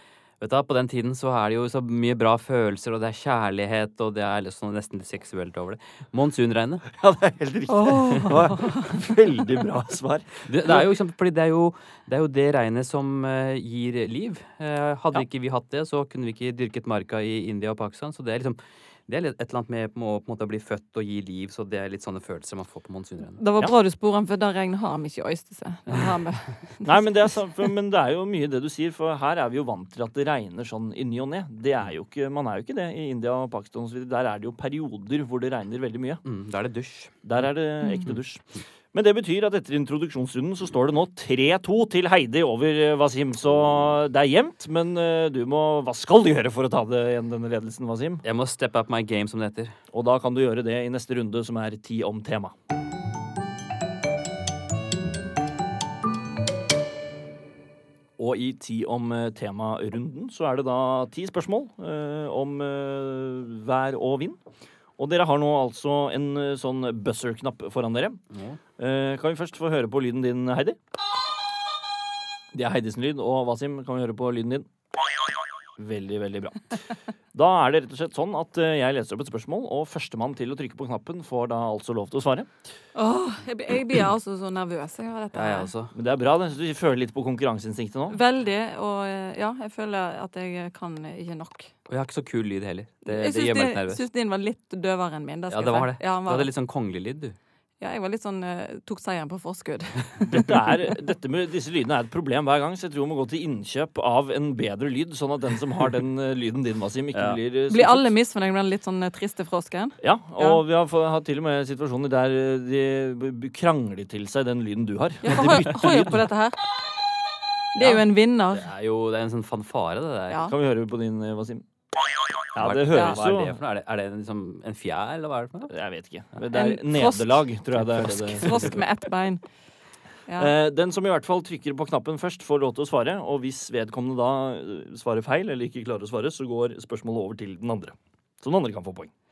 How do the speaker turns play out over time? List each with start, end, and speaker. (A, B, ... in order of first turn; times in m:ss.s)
0:00.4-0:06.9 A
0:06.9-0:10.9 B
0:07.7-0:08.9 C
0:10.4-0:23.4 A
0:23.4-0:27.3 C
0:26.8-0:36.2 B
0:36.2-0:37.1 A
0:37.2-0:48.2 B
0:48.2-0:49.7 A
0:49.9-0:52.5 B
0:58.2-1:04.4 B
1:05.0-1:08.2 B
1:08.3-1:08.6 A
1:08.8-1:10.8 B
1:12.5-1:14.7 B
1:15.8-1:16.8 B
1:17.3-1:22.5 B
1:22.9-1:25.7 C
1:25.3-1:25.9 A
1:25.9-1:28.2 B
1:28.1-1:31.7 C
1:31.9-1:34.0 A
1:33.0-1:36.5 C
1:35.5-1:37.4 A
1:37.8-1:40.5 C
1:40.2-1:48.1 B
1:47.7-1:50.6 C
1:50.0-1:56.2 B
1:55.2-1:56.6 C
1:57.7-1:58.7 C
1:58.5-2:00.4 A
2:00.4-2:01.6 B
2:02.5-2:03.6 B
2:02.6-2:05.7 A
2:05.7-2:08.7 B
2:06.5-2:07.4 C
2:07.8-2:08.7 A
2:08.4-2:09.4 C
2:10.3-2:10.5 C
2:10.4-2:19.1 B